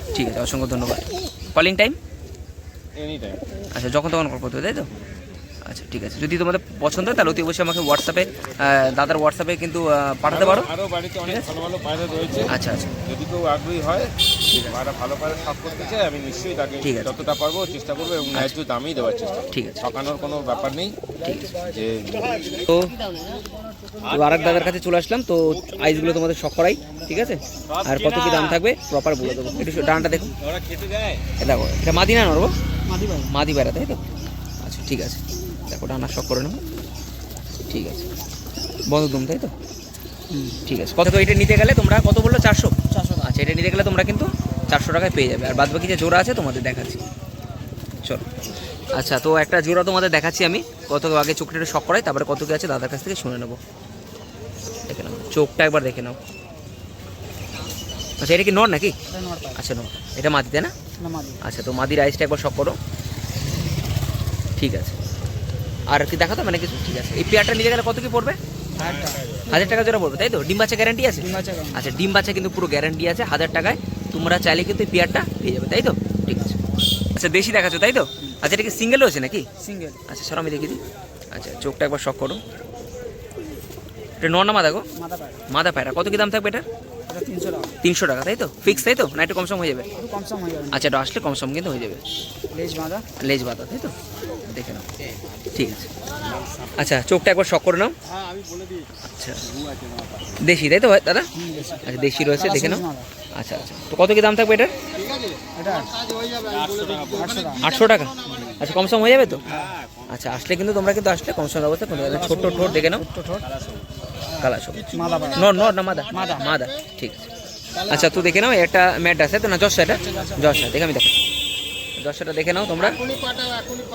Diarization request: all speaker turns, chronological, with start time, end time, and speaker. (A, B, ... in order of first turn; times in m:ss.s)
0:00.1-0:02.0 A
0:03.0-0:03.4 B
0:03.7-0:04.9 A
0:05.0-0:05.2 B
0:05.6-0:10.7 A
0:10.3-0:22.7 B
0:11.3-0:11.5 A
0:12.5-0:12.9 A
0:14.5-0:14.8 A
0:16.8-0:17.3 A
0:19.5-0:19.8 A
0:21.2-0:21.6 A
0:22.7-0:23.0 A
0:24.0-0:30.4 A
0:24.1-0:24.8 B
0:27.7-0:28.6 B
0:30.4-0:31.2 B
0:31.4-0:32.6 A
0:32.9-0:33.3 C
0:33.3-0:34.0 A
0:34.6-0:36.6 A
0:37.7-0:38.1 A
0:38.9-0:39.5 A
0:40.3-0:40.6 C
0:40.7-0:47.1 A
0:42.9-0:43.2 C
0:48.9-0:53.6 A
0:54.9-0:56.2 A
0:58.2-0:59.0 A
0:59.1-0:59.6 C
0:59.5-1:00.7 A
1:01.0-1:01.4 C
1:01.4-1:02.8 A
1:04.6-1:05.0 A
1:05.9-1:08.4 A
1:08.8-1:09.8 C
1:08.8-1:09.4 B
1:09.5-1:16.6 A
1:11.2-1:11.8 C
1:17.2-1:19.5 A
1:19.6-1:20.0 C
1:20.1-1:20.8 A
1:21.3-1:22.4 A
1:24.2-1:24.9 A
1:24.9-1:25.4 C
1:25.5-1:26.7 A
1:27.1-1:27.8 C
1:27.8-1:29.9 A
1:30.0-1:30.8 C
1:30.7-1:32.0 A
1:32.5-1:33.1 C
1:33.2-1:33.9 A
1:34.5-1:34.9 A
1:35.5-1:35.9 A
1:36.8-1:38.0 A
1:39.0-1:39.4 A
1:40.4-1:41.3 A
1:41.4-1:43.1 C
1:41.8-1:42.8 A
1:43.4-1:44.7 A
1:45.6-1:46.0 C
1:46.4-1:47.1 B
1:47.0-1:47.7 C
1:47.6-1:53.1 A
1:48.3-1:48.5 C
1:52.4-1:53.6 C
1:54.3-1:57.2 A
1:54.9-1:55.5 C
1:56.1-1:56.5 C
1:57.8-2:01.1 A
2:00.0-2:00.6 C
2:02.0-2:03.1 A